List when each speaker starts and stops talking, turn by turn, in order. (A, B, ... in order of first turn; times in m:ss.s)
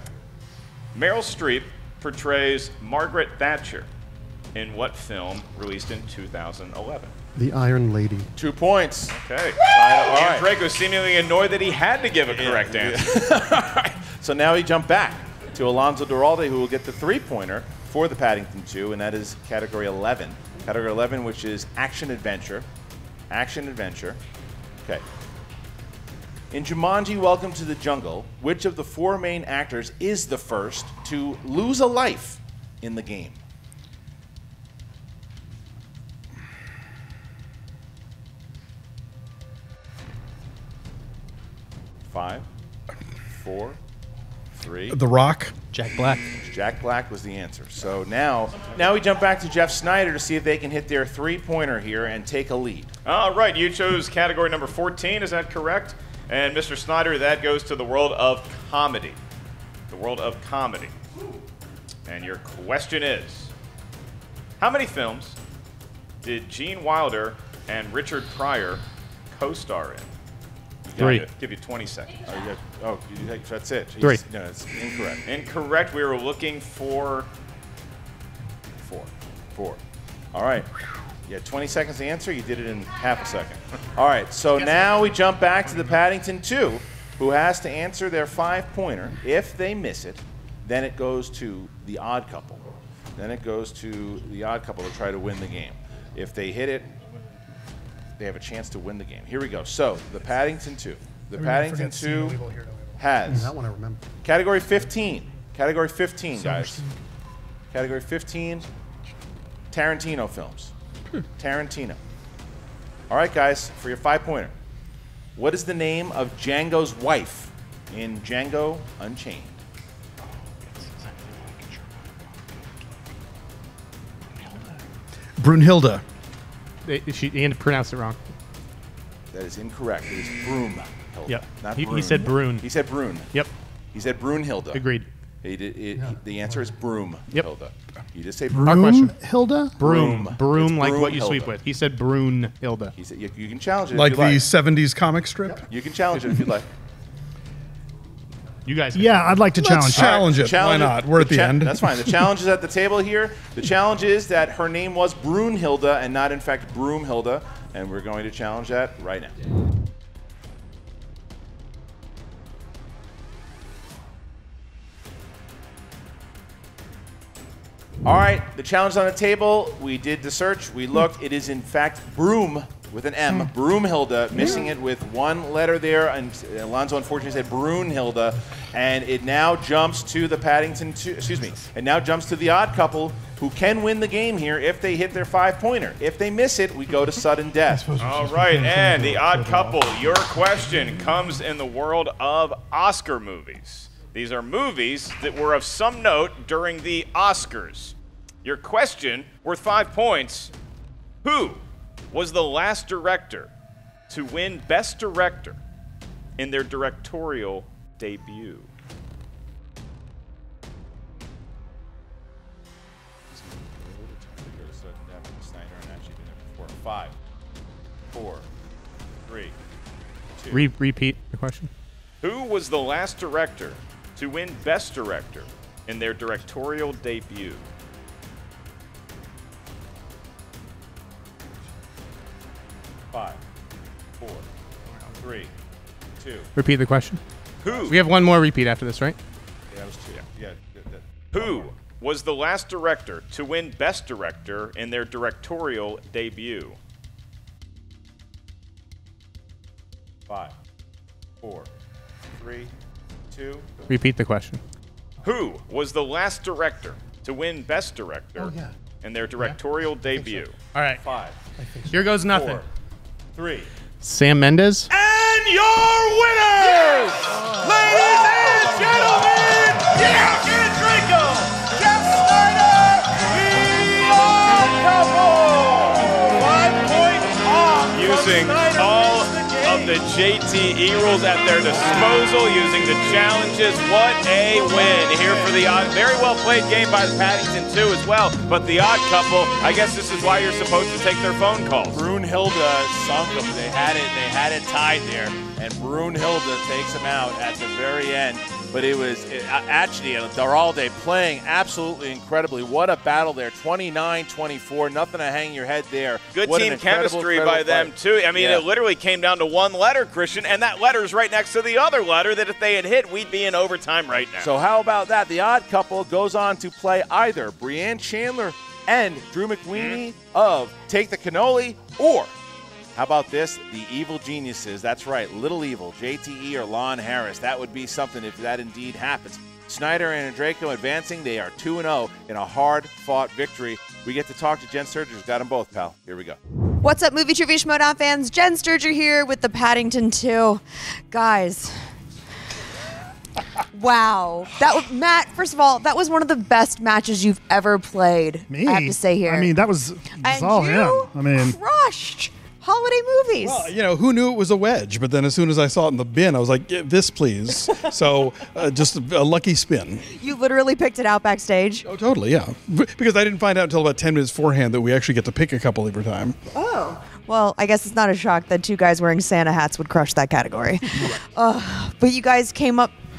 0:00.9-0:03.9 A
0:04.5-0:07.1 A
0:07.3-0:08.3 B
0:08.4-0:10.5 C
0:09.1-0:13.1 A
0:12.3-0:22.6 C
0:23.3-0:24.2 C
0:26.5-0:33.4 C
0:42.1-0:42.4 C
0:43.3-0:43.8 C
0:44.5-0:45.0 C
0:44.9-0:45.5 D
0:45.7-0:46.3 E
0:46.4-0:52.9 C
0:53.0-0:59.2 A
0:59.9-1:00.9 A
1:02.1-1:03.5 A
1:04.6-1:05.4 A
1:06.2-1:10.1 A
1:10.9-1:11.2 C
1:11.0-1:11.2 E
1:11.0-1:12.2 A
1:12.2-1:15.2 C
1:15.2-1:17.3 A
1:18.8-1:19.8 C
1:20.3-1:20.7 C
1:21.3-1:32.6 C
1:33.2-1:36.9 C
1:38.2-1:42.4 C
1:41.4-1:43.0 F
1:43.0-1:43.5 C
1:43.2-1:44.0 B
1:44.2-1:46.8 C
1:46.4-1:46.8 F
1:47.7-1:48.6 C
1:49.7-1:50.7 C
1:51.4-1:52.0 C
1:53.1-1:54.5 C
1:55.4-1:59.6 C
2:00.7-2:01.9 E
2:05.4-2:06.0 D
2:06.8-2:08.2 E
2:09.3-2:13.3 C
2:11.3-2:12.7 E
2:13.9-2:14.8 C
2:14.7-2:15.1 E
2:15.4-2:18.8 C
2:18.5-2:19.8 F
2:18.6-2:19.2 E
2:19.8-2:22.9 E
2:19.8-2:21.5 C
2:23.0-2:24.4 C
2:23.9-2:25.6 D
2:25.7-2:26.7 C
2:28.6-2:29.6 E
2:28.9-2:30.3 F
2:29.6-2:32.3 D
2:30.0-2:39.3 C
2:48.0-3:07.9 C
3:07.7-3:09.9 D
3:08.0-3:20.5 A
3:21.2-3:23.5 A
3:24.1-3:25.6 A
3:26.4-3:28.7 A
3:33.3-3:37.2 C
3:38.1-3:38.4 C
3:39.3-3:39.5 C
3:40.4-3:40.7 C
3:40.5-3:41.7 E
3:42.2-3:47.6 A
3:53.1-3:53.4 C
3:54.2-3:54.4 C
3:55.1-3:55.5 C
3:56.2-3:56.5 C
3:56.6-3:57.2 E
3:57.6-3:58.0 A
3:57.6-3:58.0 C
3:57.9-3:59.2 E
3:59.7-4:01.7 C
4:01.3-4:06.8 A
4:10.3-4:10.5 C
4:11.4-4:11.7 C
4:12.3-4:12.7 C
4:13.3-4:13.6 C
4:13.9-4:14.6 E
4:15.2-4:20.6 A
4:18.4-4:18.7 B
4:20.1-4:20.4 B
4:20.7-4:21.0 E
4:21.0-4:21.3 C
4:21.6-4:22.2 B
4:21.9-4:22.6 E
4:22.3-4:22.6 C
4:23.3-4:23.7 C
4:24.0-4:24.9 E
4:24.9-4:40.0 C
4:37.9-4:52.0 A
4:41.8-4:42.2 C
4:44.6-4:45.7 C
4:51.9-5:08.6 C
5:06.3-5:14.5 A
5:14.4-5:22.3 C
5:22.9-5:36.4 C
5:36.8-5:41.8 G
5:43.7-5:49.6 G
5:48.5-5:51.6 F
5:50.2-5:53.7 G
5:53.4-6:00.0 D
6:00.2-6:01.9 G
6:01.8-6:06.4 D
6:06.5-6:12.9 G